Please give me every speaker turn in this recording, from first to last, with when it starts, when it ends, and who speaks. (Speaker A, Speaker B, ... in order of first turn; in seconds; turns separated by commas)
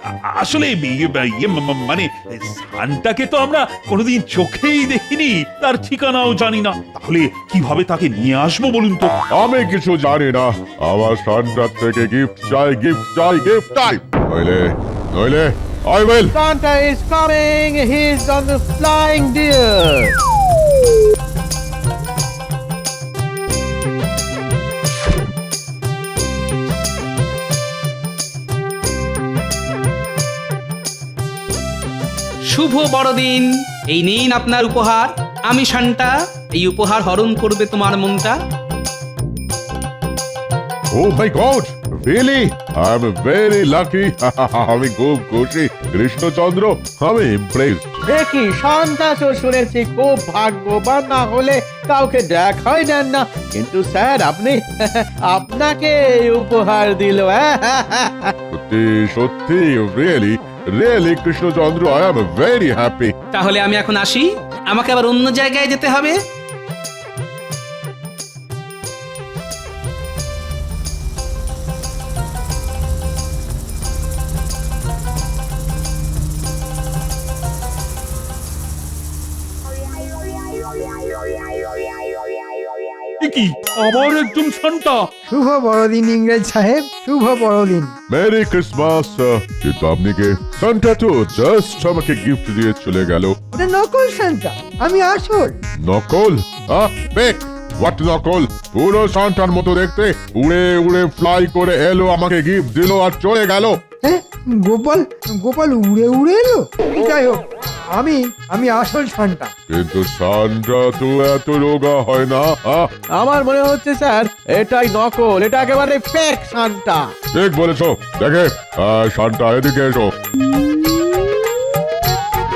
Speaker A: 0.2-9.1, Speaker B: 9.3-16.3, Speaker C: 16.3-20.1, Speaker D: 32.5-38.3, Speaker B: 40.9-48.0, Speaker C: 48.1-58.3, Speaker B: 58.5-63.1, Speaker D: 63.3-66.2, Speaker A: 83.2-85.1, Speaker E: 85.3-87.9, Speaker B: 88.1-93.3, Speaker E: 93.5-95.5, Speaker B: 95.8-103.7, Speaker E: 104.0-107.4, Speaker E: 107.9-109.5, Speaker B: 109.7-112.9, Speaker C: 113.2-117.0, Speaker B: 117.3-120.1